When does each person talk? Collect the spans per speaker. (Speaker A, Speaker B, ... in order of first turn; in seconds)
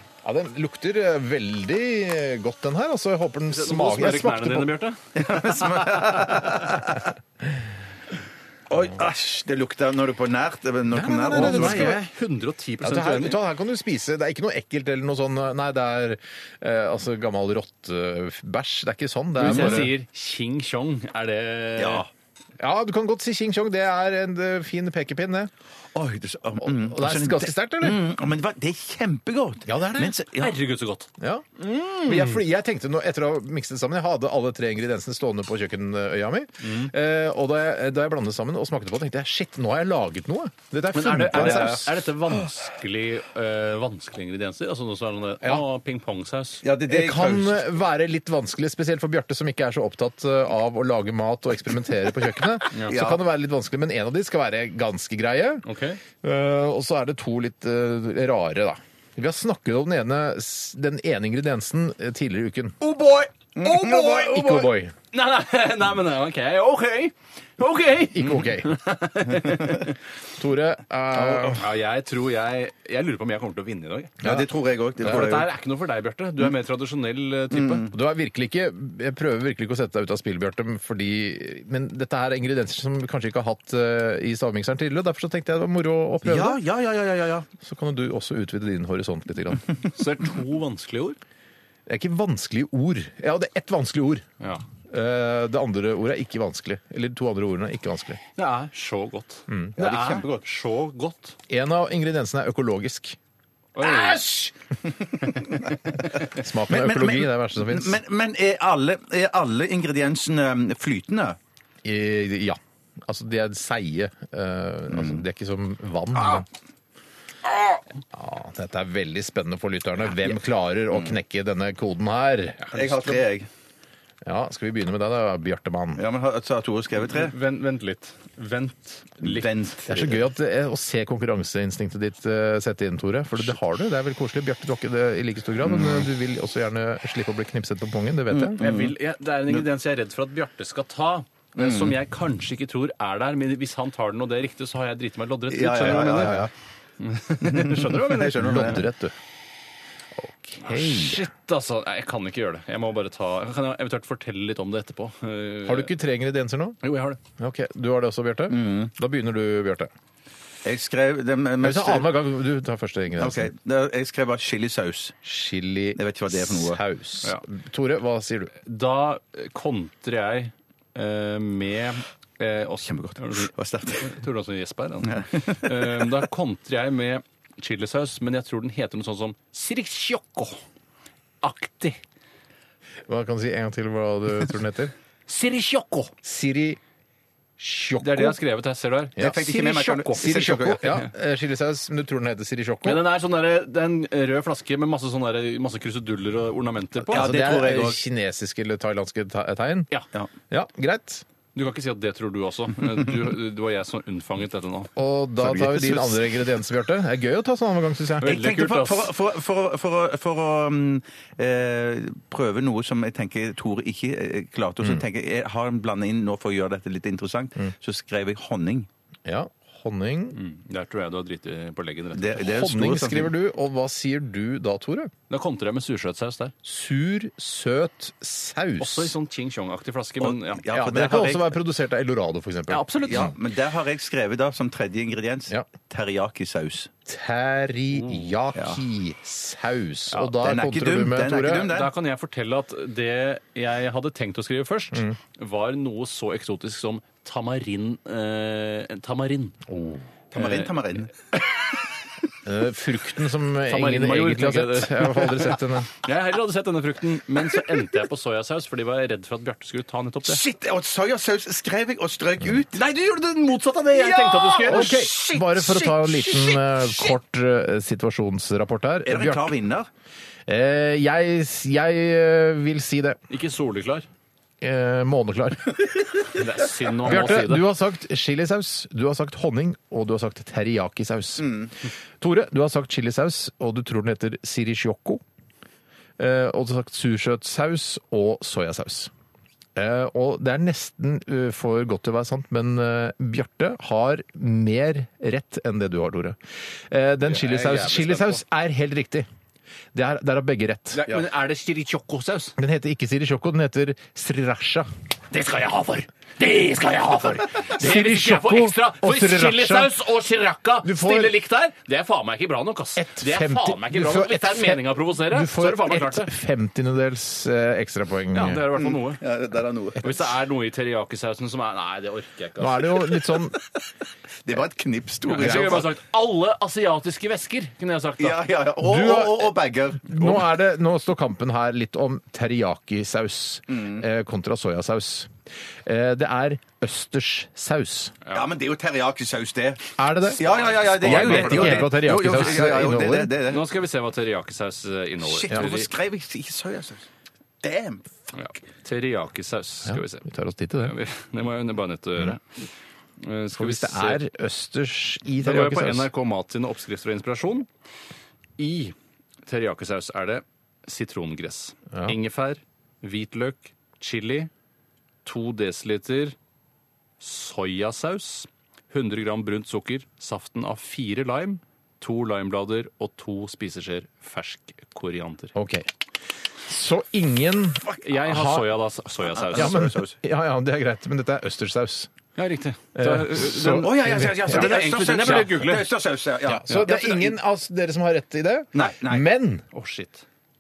Speaker A: 0.2-4.8, 10.9-12.0, 12.8-19.9, 22.6-25.5, 26.6-28.1, 29.7-30.2, 31.2-41.9, 46.9-55.7, 56.2-62.8, 63.6-64.9, 68.1-68.8, 70.4-71.6, 75.0-75.3, 77.9-86.6, 87.6-89.7, 91.9-94.3, 94.9-98.2, 99.5-99.7, 101.5-103.2, 106.3-108.0, 111.8-116.5, 118.1-123.2, 124.2-126.0, 129.9-138.6, 146.0-146.4, 148.3-149.2, 150.2-151.2, 155.7-156.8, 157.4-159.9, 161.6-163.5, 165.2-168.6, 183.1-184.9, 186.2-186.8, 187.6-188.4, 189.2-189.5, 190.1-193.0, 197.1-199.9, 200.5-201.2, 205.0-208.3, 219.3-220.4, 222.4-225.1, 226.6-229.1, 230.7-233.3, 237.1-241.7, 249.7-250.1, 252.4-255.9, 264.6-269.5, 270.5-273.2, 274.6-276.4, 277.0-281.6, 282.2-285.2, 286.2-289.1, 289.8-299.3, 299.9-301.2, 302.6-304.9, 307.6-309.9, 310.8-311.4, 313.0-318.7, 322.6-323.6, 325.4-325.8, 328.8-335.3, 335.9-338.1, 340.0-343.3, 349.9-350.9, 353.5-356.1, 375.6-375.9, 376.6-378.7, 379.5-382.1, 382.9-384.7, 386.5-389.6
Speaker B: 3.5-6.7, 11.3-13.4, 19.4-22.1, 30.4-31.1, 36.6-36.9, 40.9-46.6, 55.6-56.0, 65.1-70.0, 71.5-74.2, 75.0-77.9, 89.9-91.2, 98.4-101.4, 103.8-104.3, 127.1-129.5, 138.6-146.4, 147.0-148.6, 150.6-155.9, 156.8-157.2, 168.6-180.6, 181.4-182.0, 185.3-186.1, 188.0-191.1, 192.8-197.3, 201.6-204.9, 208.2-209.1, 220.3-222.4, 225.3-226.5, 228.8-230.6, 232.7-233.3, 237.9-238.2, 241.4-249.6, 250.3-250.8, 253.7-260.4, 262.7-265.0, 273.3-274.1, 276.3-277.7, 297.3-298.4, 300.9-302.6, 305.3-316.3, 318.3-319.2, 320.0-322.9, 325.3-328.4, 340.8-342.4, 343.5-345.9, 348.4-350.3, 350.8-352.5, 353.2-354.2, 355.4-357.7, 358.6-358.9, 359.5-364.5, 365.2-366.4, 367.2-375.6, 378.0-379.7, 382.4-385.9, 389.7-390.2
Speaker C: 5.2-7.1, 8.7-12.0, 19.4-19.9, 21.8-22.1, 25.9-30.6, 41.3-41.8, 46.6-47.8, 52.9-53.2, 62.8-64.7, 74.2-75.5, 77.5-77.9, 86.2-87.5, 99.8-100.5, 103.8-106.0, 106.7-111.4, 114.9-115.2, 116.2-116.5, 122.7-123.5, 126.0-127.4, 129.2-130.2, 135.6-136.1, 138.3-138.9, 141.6-141.9, 145.5-146.5, 147.4-148.9, 158.5-158.9, 160.6-162.1, 163.2-165.2, 166.0-166.8, 172.9-174.2, 175.1-176.1, 189.2-190.9, 197.1-198.0, 205.4-206.2, 208.2-218.9, 222.2-223.3, 230.2-231.5, 233.1-236.9, 240.4-241.9, 250.3-251.1, 260.3-262.8, 263.9-267.1, 269.1-269.9, 281.4-281.7, 318.8-320.0, 324.4-325.9, 328.2-330.4, 333.7-334.0, 338.3-343.7, 345.2-347.1, 347.6-348.6, 379.2-380.2, 383.6-387.4, 388.7-389.3